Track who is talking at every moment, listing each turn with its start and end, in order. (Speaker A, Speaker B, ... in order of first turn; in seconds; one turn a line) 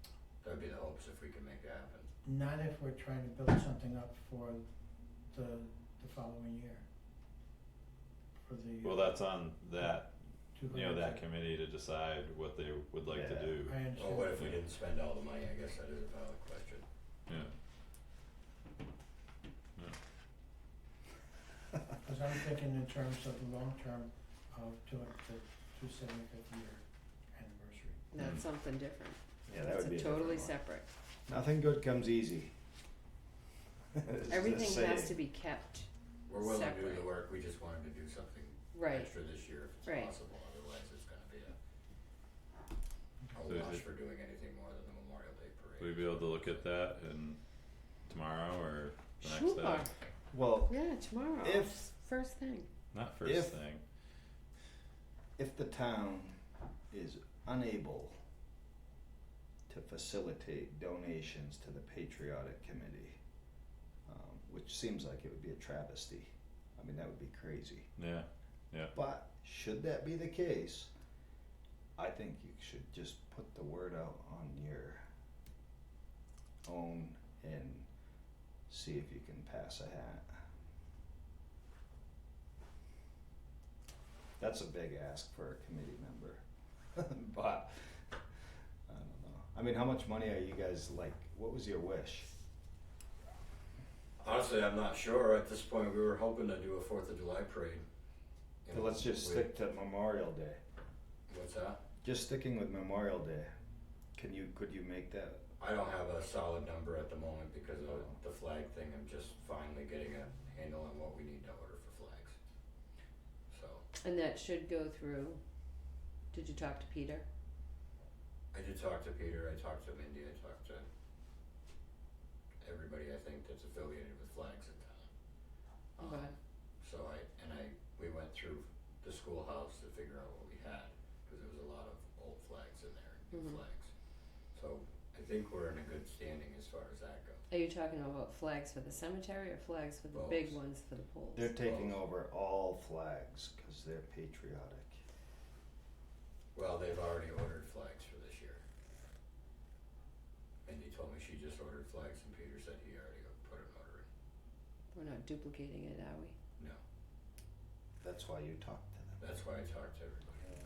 Speaker A: 0.4-2.1
Speaker B: 2.2-4.6
Speaker B: 5.3-6.9
Speaker B: 8.4-9.3
Speaker C: 8.8-10.1
Speaker B: 10.6-11.3
Speaker C: 10.7-13.8
Speaker D: 13.1-13.6
Speaker B: 13.6-14.6
Speaker A: 13.9-16.9
Speaker C: 17.3-17.5
Speaker B: 22.0-28.2
Speaker E: 28.1-30.9
Speaker C: 28.2-28.5
Speaker D: 29.5-30.6
Speaker D: 31.3-32.5
Speaker D: 33.9-35.2
Speaker E: 34.3-37.1
Speaker A: 36.3-41.6
Speaker E: 38.7-39.1
Speaker E: 39.9-40.1
Speaker A: 43.3-46.7
Speaker C: 43.5-43.8
Speaker C: 45.8-47.4
Speaker C: 48.1-49.9
Speaker E: 49.2-50.0
Speaker D: 50.3-50.8
Speaker E: 50.7-52.7
Speaker D: 51.4-51.8
Speaker C: 52.9-53.8
Speaker D: 53.2-53.6
Speaker D: 55.4-56.4
Speaker D: 56.9-58.1
Speaker D: 59.7-63.2
Speaker D: 64.1-67.9
Speaker C: 68.0-68.9
Speaker D: 69.0-70.9
Speaker D: 72.0-75.1
Speaker D: 76.7-77.9
Speaker D: 78.7-80.4
Speaker D: 84.4-86.4
Speaker D: 87.0-88.2
Speaker D: 88.9-92.3
Speaker A: 94.2-97.8
Speaker A: 98.7-99.5
Speaker D: 98.7-100.6
Speaker A: 101.3-101.8
Speaker D: 102.0-103.5
Speaker D: 104.2-105.5
Speaker A: 105.6-112.4
Speaker D: 107.9-108.1
Speaker A: 113.5-113.8
Speaker E: 114.0-115.4
Speaker E: 116.3-117.2
Speaker A: 118.5-120.9
Speaker A: 122.6-125.1
Speaker A: 126.0-133.9
Speaker E: 126.0-126.3
Speaker E: 133.3-133.6
Speaker A: 134.5-137.4
Speaker E: 137.5-141.6
Speaker A: 140.1-140.6
Speaker D: 141.3-145.0
Speaker A: 141.6-142.0
Speaker A: 146.6-148.6
Speaker A: 150.7-154.1
Speaker E: 154.9-156.4
Speaker D: 158.0-159.2
Speaker A: 159.2-160.4